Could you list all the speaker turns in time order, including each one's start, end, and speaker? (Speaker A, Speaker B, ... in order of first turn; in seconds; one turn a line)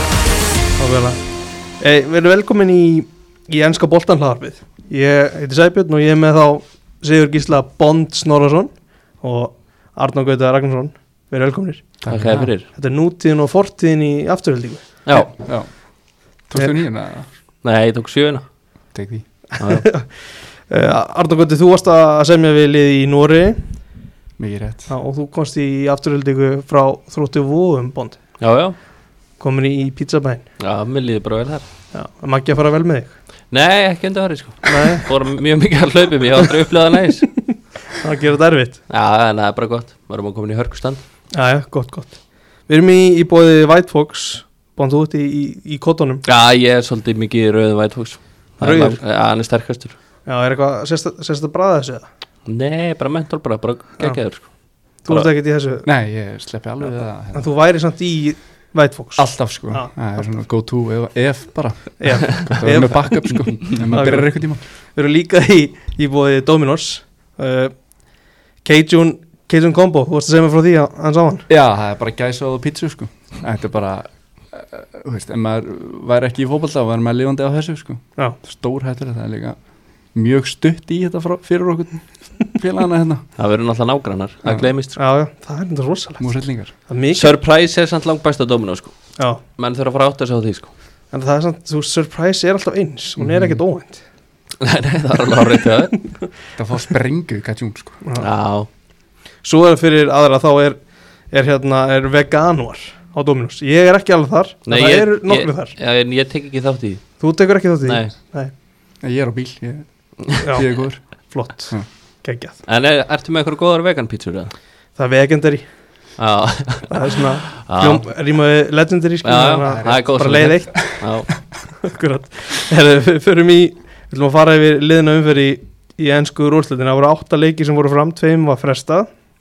Speaker A: 0.8-1.2
Speaker A: 1.8-11.8
Speaker B: 12.0-12.5
Speaker C: 12.1-12.7
Speaker A: 12.7-14.8
Speaker C: 15.0-15.3
Speaker B: 15.1-15.7
Speaker B: 16.5-17.3
Speaker C: 17.6-18.4
Speaker B: 18.9-19.2
Speaker A: 19.6-23.6
Speaker C: 19.6-19.9
Speaker B: 24.4-24.9
Speaker A: 24.9-28.2
Speaker C: 28.4-28.8
Speaker A: 29.4-30.4
Speaker C: 30.6-31.6
Speaker A: 31.9-33.1
Speaker C: 33.5-37.3
Speaker A: 34.6-35.1
Speaker A: 37.3-38.8
Speaker C: 38.9-41.0
Speaker A: 41.3-42.2
Speaker A: 42.7-46.2
Speaker C: 46.2-50.0
Speaker A: 48.6-49.0
Speaker A: 50.2-52.0
Speaker C: 52.5-54.5
Speaker A: 55.0-55.9
Speaker B: 55.9-57.5
Speaker A: 57.3-59.9
Speaker B: 59.2-64.6
Speaker A: 62.0-64.4
Speaker A: 64.9-67.7
Speaker A: 68.6-71.5
Speaker B: 71.5-79.6
Speaker B: 80.1-83.2
Speaker C: 83.4-85.0
Speaker A: 85.0-86.3
Speaker B: 86.2-86.7
Speaker A: 86.9-87.3
Speaker C: 87.1-88.9
Speaker C: 89.5-90.7
Speaker A: 91.1-94.0
Speaker B: 93.2-93.6
Speaker C: 94.6-96.0
Speaker B: 96.5-98.0
Speaker C: 98.2-98.7
Speaker A: 99.4-100.8
Speaker A: 101.3-105.7
Speaker C: 104.7-107.0
Speaker A: 107.2-108.5
Speaker C: 107.8-108.1
Speaker B: 109.0-111.0
Speaker A: 110.4-110.7
Speaker A: 111.2-112.6
Speaker C: 112.7-114.5
Speaker A: 115.0-115.6
Speaker C: 116.2-118.1
Speaker A: 116.9-120.8
Speaker C: 119.2-121.3
Speaker B: 119.7-121.1
Speaker A: 121.8-129.1